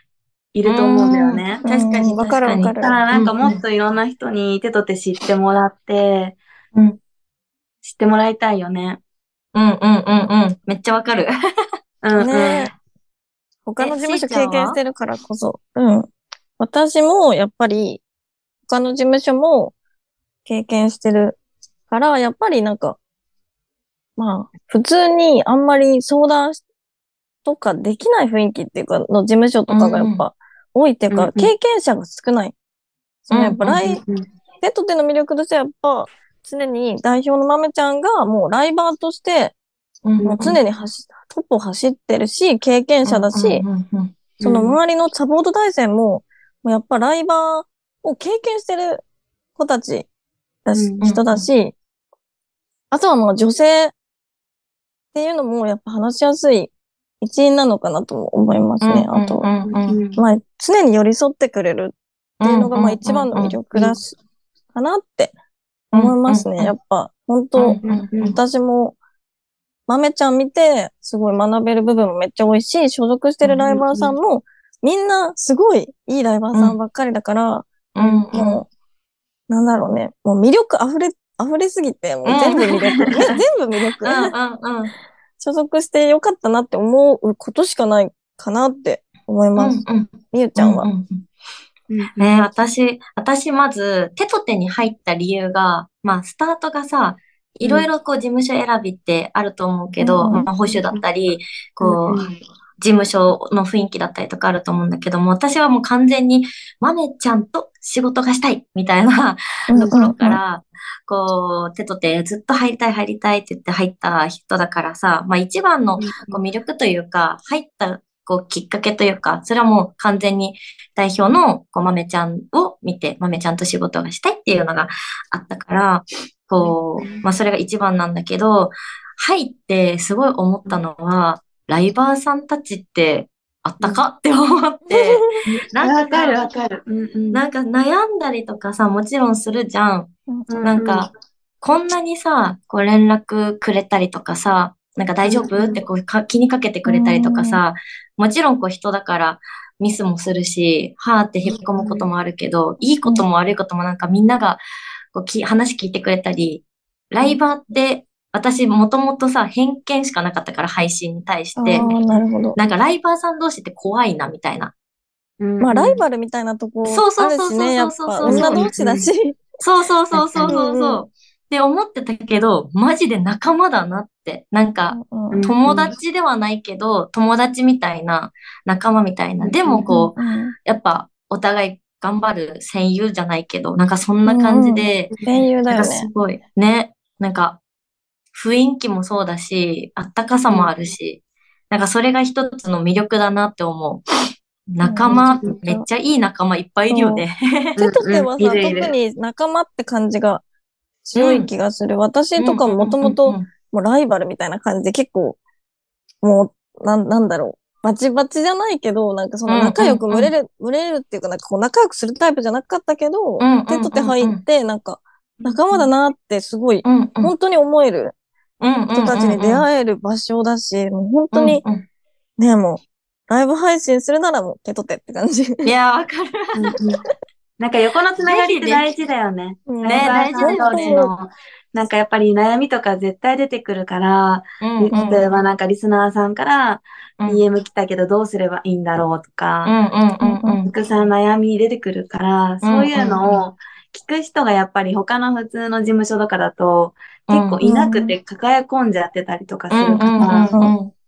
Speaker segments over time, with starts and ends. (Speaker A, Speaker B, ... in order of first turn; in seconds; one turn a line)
Speaker A: 0.5-1.6
Speaker B: 0.7-3.6
Speaker C: 1.6-3.0
Speaker A: 2.8-6.4
Speaker B: 6.7-7.0
Speaker A: 7.8-9.0
Speaker B: 9.5-11.3
Speaker A: 12.0-12.7
Speaker C: 12.2-12.7
Speaker C: 13.7-18.0
Speaker B: 13.8-14.8
Speaker C: 18.7-19.7
Speaker C: 20.4-23.0
Speaker C: 24.2-26.6
Speaker C: 27.4-32.5
Speaker B: 29.7-30.2
Speaker A: 31.1-31.5
Speaker C: 33.3-34.0
Speaker B: 33.3-34.0
Speaker A: 34.0-34.3
Speaker C: 34.6-39.6
Speaker A: 40.2-40.6
Speaker C: 40.2-43.6
Speaker B: 43.0-44.1
Speaker A: 44.4-44.8
Speaker C: 44.4-49.0
Speaker C: 49.6-50.1
Speaker C: 50.6-51.8
Speaker A: 50.8-51.0
Speaker B: 51.0-51.5
Speaker C: 52.9-53.9
Speaker C: 55.1-59.5
Speaker B: 58.8-60.0
Speaker A: 59.7-60.2
Speaker C: 60.2-64.2
Speaker B: 62.4-63.6
Speaker C: 64.7-65.3
Speaker C: 65.9-69.0
Speaker B: 65.9-66.7
Speaker B: 67.6-68.4
Speaker A: 67.8-68.3
Speaker C: 69.9-78.7
Speaker A: 73.7-74.2
Speaker B: 78.0-78.6
Speaker C: 79.5-84.3
Speaker B: 82.2-82.7
Speaker A: 82.6-83.0
Speaker B: 84.0-84.9
Speaker C: 85.4-90.9
Speaker B: 89.6-91.2
Speaker A: 91.9-92.3
Speaker B: 92.2-136.4
Speaker C: 100.0-100.5
Speaker A: 100.7-101.0
Speaker A: 101.8-102.3
Speaker C: 109.7-110.4
Speaker A: 109.7-110.0
Speaker A: 116.0-116.4
Speaker A: 126.6-127.3
Speaker C: 134.9-135.3
Speaker A: 135.5-137.4
Speaker B: 137.3-140.1
Speaker C: 140.3-140.7
Speaker A: 140.5-141.1
Speaker B: 140.6-154.6
Speaker A: 145.2-145.8
Speaker C: 146.9-147.6
Speaker A: 151.5-152.1
Speaker B: 155.1-161.9
Speaker C: 161.6-162.6
Speaker A: 161.7-162.1
Speaker B: 162.6-164.7
Speaker A: 165.4-166.0
Speaker C: 165.6-169.4
Speaker B: 166.8-168.7
Speaker A: 168.2-169.1
Speaker B: 169.6-187.6
Speaker A: 170.1-170.6
Speaker C: 170.4-171.1
Speaker C: 174.9-175.5
Speaker A: 175.3-175.9
Speaker A: 179.4-180.1
Speaker C: 179.8-180.6
Speaker C: 184.3-186.1
Speaker B: 188.3-194.0
Speaker B: 194.7-197.8
Speaker A: 194.8-195.6
Speaker C: 195.0-195.9
Speaker C: 196.9-197.2
Speaker A: 197.8-198.9
Speaker C: 197.8-200.4
Speaker C: 201.1-205.4
Speaker B: 201.2-201.5
Speaker B: 202.4-203.5
Speaker C: 206.2-218.1
Speaker B: 209.5-210.3
Speaker B: 213.4-214.4
Speaker A: 215.4-215.9
Speaker B: 216.8-217.3
Speaker B: 218.6-219.7
Speaker C: 218.9-221.6
Speaker B: 221.3-221.8
Speaker C: 222.4-225.7
Speaker B: 225.7-226.7
Speaker A: 226.5-227.1
Speaker A: 227.6-239.8
Speaker B: 228.2-228.9
Speaker C: 229.7-231.1
Speaker B: 229.9-231.0
Speaker B: 234.6-235.2
Speaker B: 239.6-240.7
Speaker C: 240.2-240.6
Speaker A: 240.7-250.6
Speaker B: 242.6-243.4
Speaker B: 247.3-247.6
Speaker C: 247.6-248.1
Speaker B: 249.7-250.9
Speaker C: 250.2-250.7